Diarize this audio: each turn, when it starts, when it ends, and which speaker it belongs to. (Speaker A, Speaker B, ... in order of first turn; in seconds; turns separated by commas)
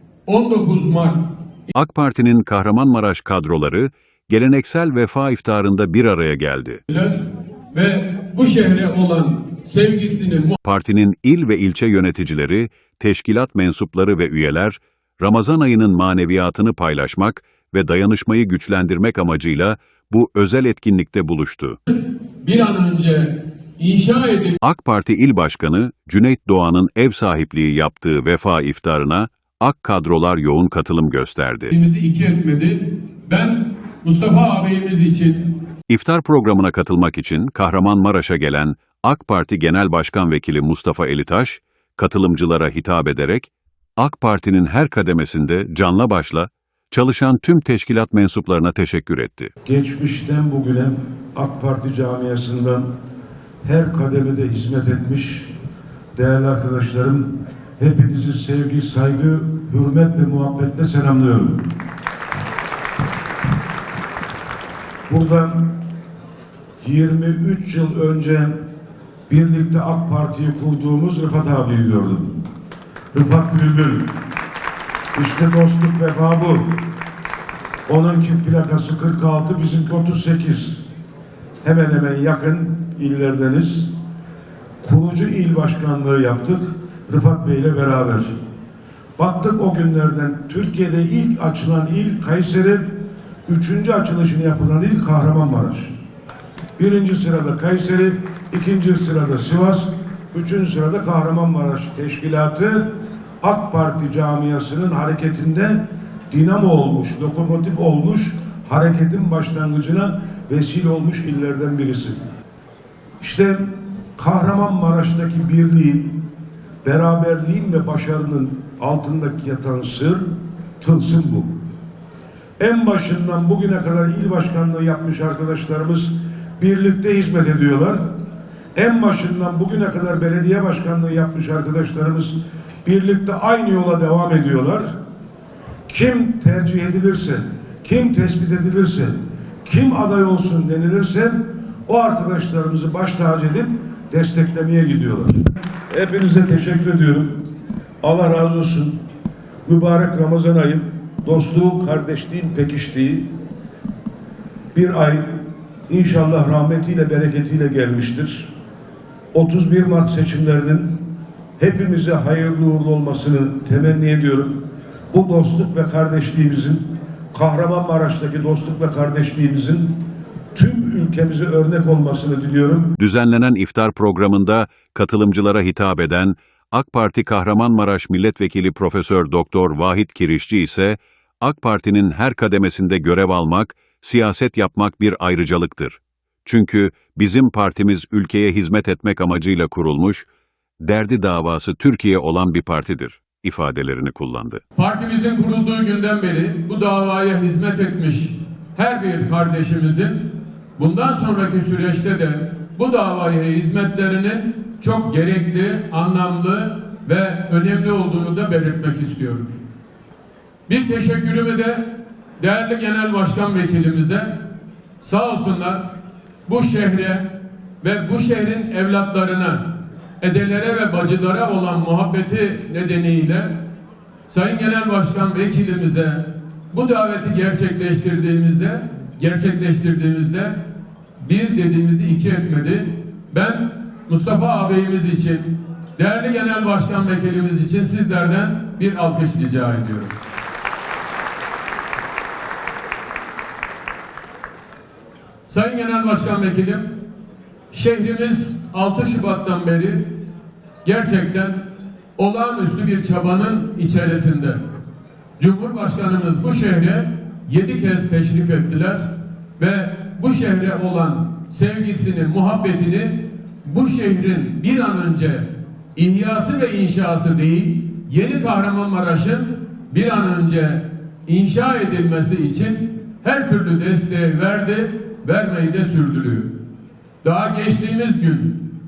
Speaker A: 0.3-1.2, Speaker B: 1.7-6.8, Speaker A: 6.9-7.2, Speaker A: 7.7-10.6, Speaker B: 10.6-21.8, Speaker A: 22.4-24.6, Speaker B: 24.6-31.7, Speaker A: 31.7-35.5, Speaker B: 35.9-49.5, Speaker C: 49.6-52.9, Speaker C: 53.6-55.5, Speaker C: 56.1-61.6, Speaker C: 65.1-65.7, Speaker C: 66.8-68.5, Speaker C: 69.3-72.4, Speaker C: 73.1-74.1, Speaker C: 75.1-76.7, Speaker C: 77.9-80.8, Speaker C: 81.6-83.9, Speaker C: 84.8-88.3, Speaker C: 89.2-92.9, Speaker C: 93.5-96.0, Speaker C: 96.8-102.9, Speaker C: 103.4-112.2, Speaker C: 113.2-116.1, Speaker C: 116.8-120.2, Speaker C: 120.8-121.5, Speaker C: 122.6-128.0, Speaker C: 128.8-134.9, Speaker C: 135.9-139.1, Speaker C: 139.7-147.4, Speaker C: 148.0-149.0, Speaker C: 149.7-153.3, Speaker C: 154.7-155.3, Speaker C: 155.9-158.5, Speaker C: 159.3-161.0, Speaker C: 161.6-164.6, Speaker C: 165.1-169.9, Speaker C: 170.6-172.9, Speaker B: 173.0-190.3, Speaker B: 190.8-194.6, Speaker A: 194.8-209.5, Speaker A: 210.7-214.4, Speaker A: 215.0-215.9, Speaker A: 216.5-219.6, Speaker A: 220.2-223.6, Speaker A: 224.3-230.6, Speaker A: 231.2-240.1, Speaker A: 245.5-246.9, Speaker A: 247.7-250.2, Speaker A: 250.8-251.6, Speaker A: 252.2-254.6, Speaker A: 255.4-276.5, Speaker A: 277.2-278.7